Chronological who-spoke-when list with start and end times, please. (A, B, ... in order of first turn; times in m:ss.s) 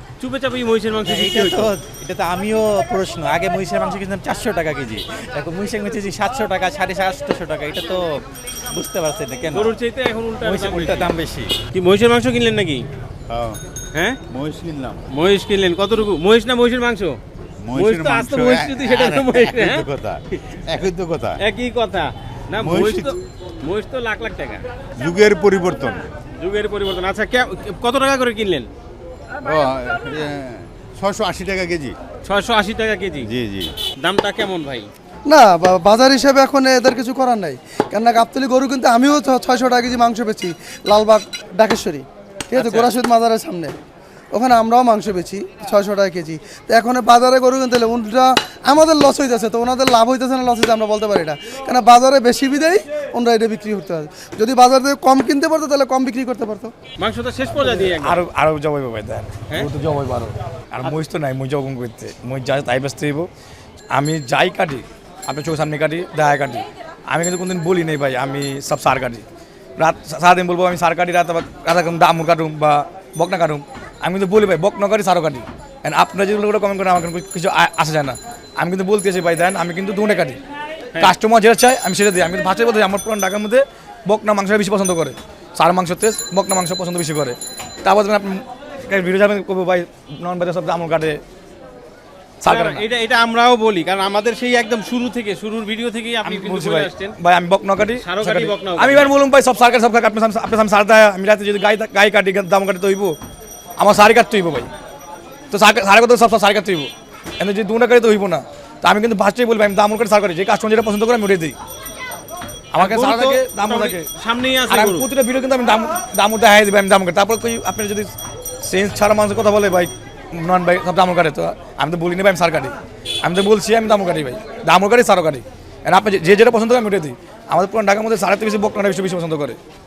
0:00.2-0:01.7 A
0:01.0-0:09.7 B
0:09.5-0:11.1 A
0:10.4-0:11.5 B
0:11.7-0:12.8 A
0:13.3-0:13.6 C
0:13.9-0:14.2 A
0:14.3-0:15.0 C
0:15.1-0:17.2 A
0:17.6-0:21.3 C
0:17.7-0:20.6 A
0:21.4-0:24.6 A
0:22.6-0:23.1 C
0:25.0-0:26.1 C
0:26.4-0:28.7 A
0:29.4-0:32.0 C
0:32.2-0:33.3 A
0:33.3-0:33.7 C
0:34.0-0:34.9 A
0:35.3-0:43.7 D
0:42.5-0:42.9 A
0:44.3-0:56.7 D
0:57.0-0:58.2 A
0:57.7-1:03.3 E
1:03.9-1:09.2 E
1:09.8-1:20.4 E
1:21.0-1:31.2 E
1:32.4-1:32.8 E
1:32.4-1:37.2 A
1:36.2-1:43.2 E
1:38.0-1:39.1 A
1:43.8-1:44.7 E
1:45.5-1:51.6 E
1:52.7-1:54.0 E
1:52.8-1:55.1 A
1:54.7-2:09.6 E